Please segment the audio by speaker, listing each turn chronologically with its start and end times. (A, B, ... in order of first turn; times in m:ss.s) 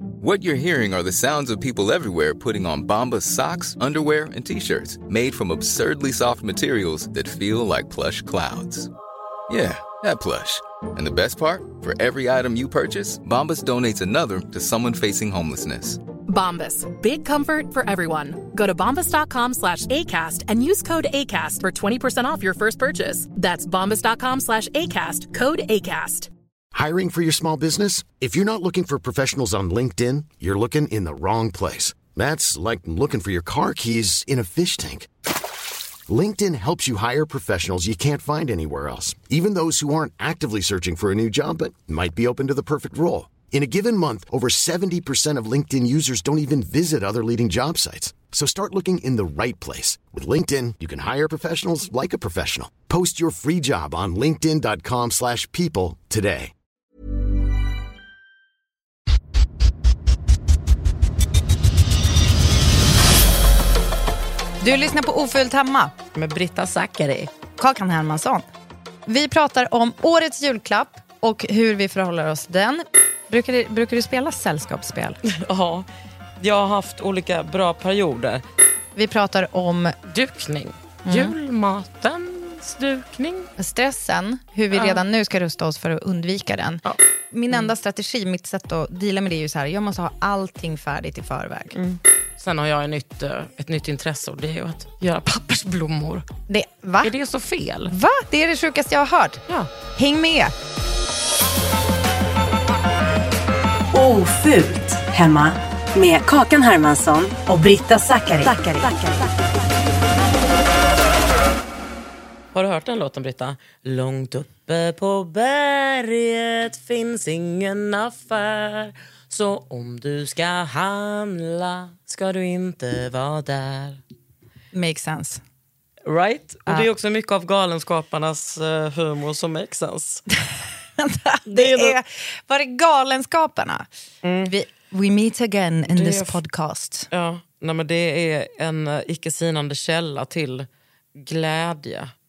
0:00.2-0:08.9 A
0:09.5-0:16.0 A
0:16.3-0:26.3 B
0:26.7-0:35.1 C
0:36.1-0:56.5 C
1:04.6-1:05.9 D
1:06.1-1:07.3 E
1:07.6-1:08.4 D
1:09.0-1:15.2 D
1:15.2-1:15.9 E
1:16.4-1:18.4 E
1:18.9-1:19.9 D
1:20.1-1:23.5 E
1:21.0-1:21.3 D
1:23.6-1:31.8 D
1:24.7-1:25.0 E
1:31.8-1:36.2 E
1:36.5-1:37.1 D
1:37.0-1:37.9 E
1:37.9-1:40.5 D
1:43.9-1:49.2 F
1:52.5-2:04.0 E
2:04.7-2:05.4 D
2:06.0-2:10.2 E
2:11.0-2:13.9 D
2:11.5-2:12.0 E
2:14.2-2:14.5 E
2:14.4-2:17.1 D
2:15.9-2:16.4 E
2:17.1-2:22.1 E